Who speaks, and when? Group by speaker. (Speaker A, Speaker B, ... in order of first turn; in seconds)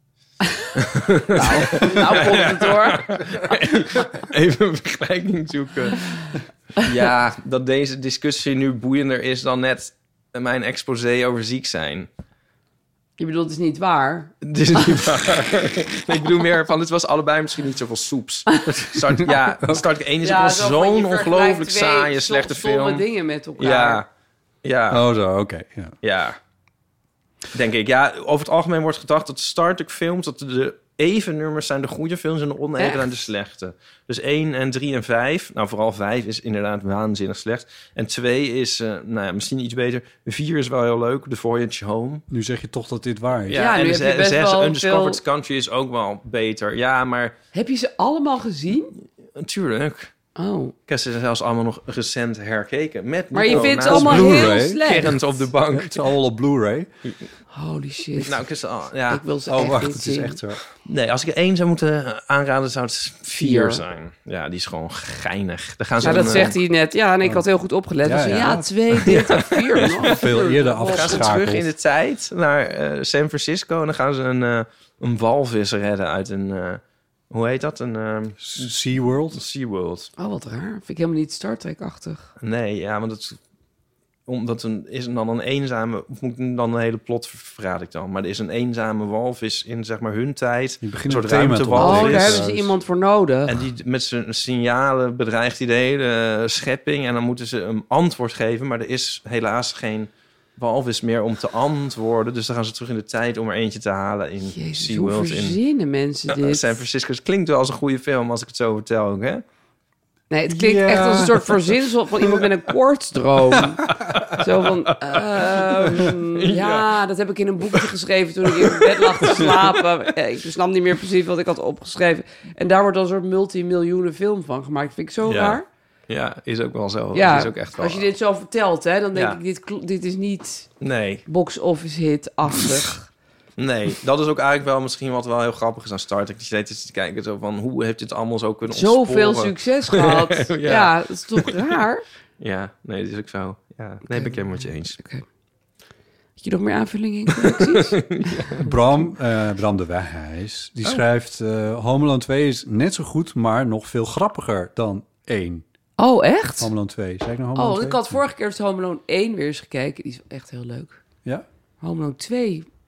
Speaker A: 0.7-6.2, 6.8-12.1, 14.4-23.1, 23.6-24.1, 24.6-25.0, 26.0-26.4, 27.5-42.2, 43.5-47.4, 49.4-50.1, 50.9-56.0, 58.2-59.2, 60.8-66.6, 69.0-70.2, 70.9-78.8, 79.3-80.1, 82.4-83.4, 84.3-92.4, 93.5-105.6, 106.3-109.4, 114.0-114.3, 115.1-116.9, 118.6-119.6, 125.2-128.1, 129.1-129.4, 130.8-131.2, 133.6-141.6, 142.4-145.0, 147.5-148.6
Speaker B: 1.3-3.6, 13.2-15.0, 20.2-24.0, 32.8-33.2, 43.5-45.2, 47.5-48.9, 50.4-50.7, 53.3-55.3, 57.5-58.4, 59.1-60.4, 63.4-63.8, 66.0-71.3, 80.2-82.3, 91.8-93.6, 104.5-106.7, 110.3-113.8, 114.4-125.6, 127.1-130.7, 131.3-133.1, 138.7-142.1, 144.1-144.4, 144.9-145.2, 146.4-148.7, 156.0-156.7, 157.6-161.0, 161.8-162.7
Speaker C: 19.1-19.9, 24.9-25.9, 42.3-43.7, 53.5-55.1, 55.7-56.9, 59.5-60.6, 66.0-66.5, 68.0-68.7, 69.9-71.7, 78.4-79.4, 90.8-92.8, 110.5-111.6, 113.9-114.2, 148.6-155.6, 156.6-158.2